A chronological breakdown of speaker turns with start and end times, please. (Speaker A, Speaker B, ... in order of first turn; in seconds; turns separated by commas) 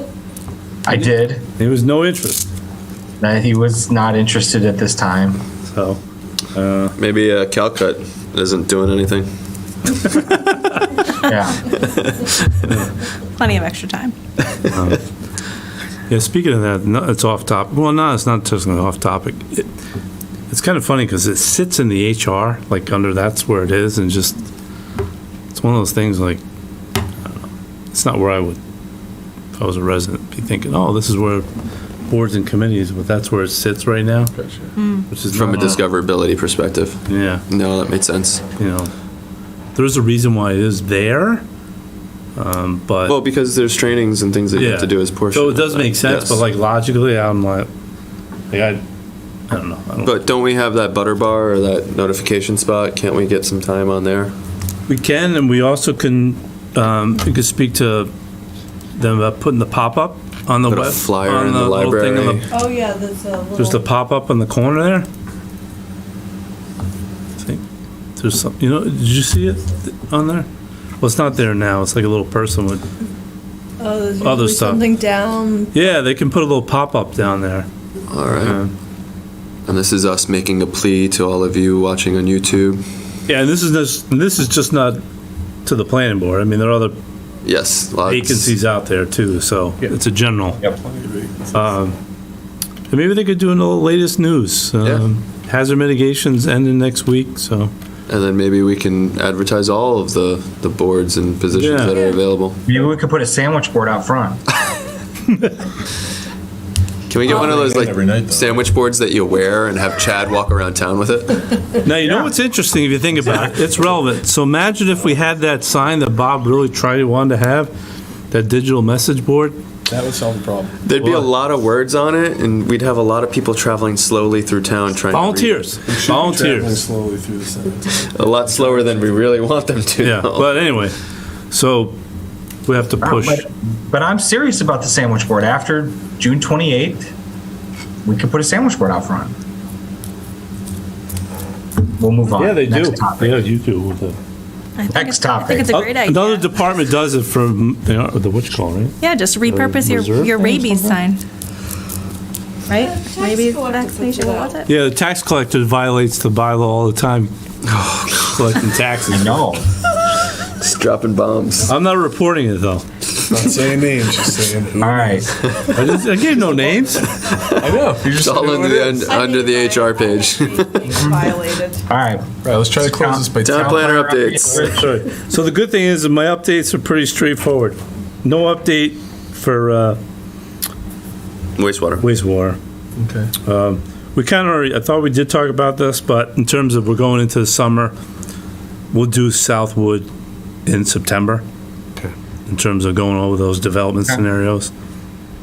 Speaker A: 0.8-1.4, Speaker B: 1.6-2.5, Speaker A: 3.2-5.4, Speaker B: 5.7-6.0, Speaker B: 6.5-6.9, Speaker C: 7.0-9.3, Speaker B: 10.1-10.6, Speaker A: 11.2-11.6, Speaker C: 11.8-12.6, Speaker B: 12.7-12.9, Speaker D: 13.4-14.2, Speaker B: 14.7-15.0, Speaker B: 16.1-19.7, Speaker B: 20.5-24.4, Speaker B: 25.5-26.4, Speaker B: 27.2-28.6, Speaker B: 29.6-31.5, Speaker B: 32.1-34.3, Speaker E: 34.4-34.7, Speaker D: 34.8-35.1, Speaker B: 35.1-35.8, Speaker C: 35.3-38.4, Speaker B: 37.1-37.4, Speaker B: 38.6-38.9, Speaker B: 39.8-41.4, Speaker B: 42.4-43.2, Speaker C: 43.1-46.4, Speaker B: 44.5-47.7, Speaker B: 48.5-48.8, Speaker B: 49.5-50.1, Speaker C: 50.0-54.3, Speaker B: 54.9-58.1, Speaker B: 59.0-62.5, Speaker C: 60.7-62.4, Speaker F: 62.5-63.8, Speaker B: 63.6-65.1, Speaker B: 68.2-70.5, Speaker B: 71.0-72.8, Speaker F: 73.8-75.8, Speaker B: 74.2-74.9, Speaker B: 75.7-77.7, Speaker C: 78.1-78.6, Speaker B: 78.4-78.7, Speaker C: 79.7-82.8, Speaker B: 83.3-85.0, Speaker B: 85.7-86.9, Speaker C: 87.4-88.5, Speaker B: 88.1-90.6, Speaker E: 90.8-91.7, Speaker B: 91.5-92.0, Speaker B: 92.9-97.7, Speaker C: 98.1-102.6, Speaker B: 101.5-102.0, Speaker A: 102.7-104.4, Speaker C: 107.1-111.6, Speaker E: 107.2-108.6, Speaker B: 111.8-117.7, Speaker A: 112.0-112.3, Speaker B: 118.3-119.6, Speaker E: 119.9-120.8, Speaker C: 120.8-125.7, Speaker B: 121.0-121.3, Speaker B: 125.1-126.8, Speaker E: 125.9-129.2, Speaker C: 128.1-130.6, Speaker B: 130.0-130.9, Speaker B: 131.5-131.9, Speaker B: 132.7-133.4, Speaker A: 133.0-137.1, Speaker A: 138.1-139.3, Speaker A: 142.0-143.4, Speaker B: 142.4-144.2, Speaker D: 144.8-146.5, Speaker A: 144.9-145.8, Speaker B: 145.7-150.4, Speaker D: 149.0-151.2, Speaker F: 150.3-151.0, Speaker D: 152.7-154.7, Speaker F: 152.7-154.7, Speaker B: 154.7-157.3, Speaker C: 157.7-158.6, Speaker B: 158.2-159.4, Speaker A: 159.1-159.7, Speaker C: 160.5-161.7, Speaker B: 161.7-162.8, Speaker E: 163.2-165.3, Speaker C: 163.3-163.7, Speaker A: 164.8-165.3, Speaker C: 165.4-165.8, Speaker B: 165.7-167.1, Speaker E: 166.5-166.9, Speaker C: 167.1-170.9, Speaker E: 167.6-169.2, Speaker F: 169.0-171.8, Speaker A: 170.9-171.3, Speaker A: 171.9-174.8, Speaker E: 172.4-173.8, Speaker C: 173.4-174.6, Speaker B: 174.6-180.0, Speaker C: 181.6-182.1, Speaker B: 182.0-182.6, Speaker E: 183.0-183.3, Speaker B: 183.4-187.9, Speaker B: 188.9-190.1, Speaker B: 190.7-191.4, Speaker B: 192.5-194.7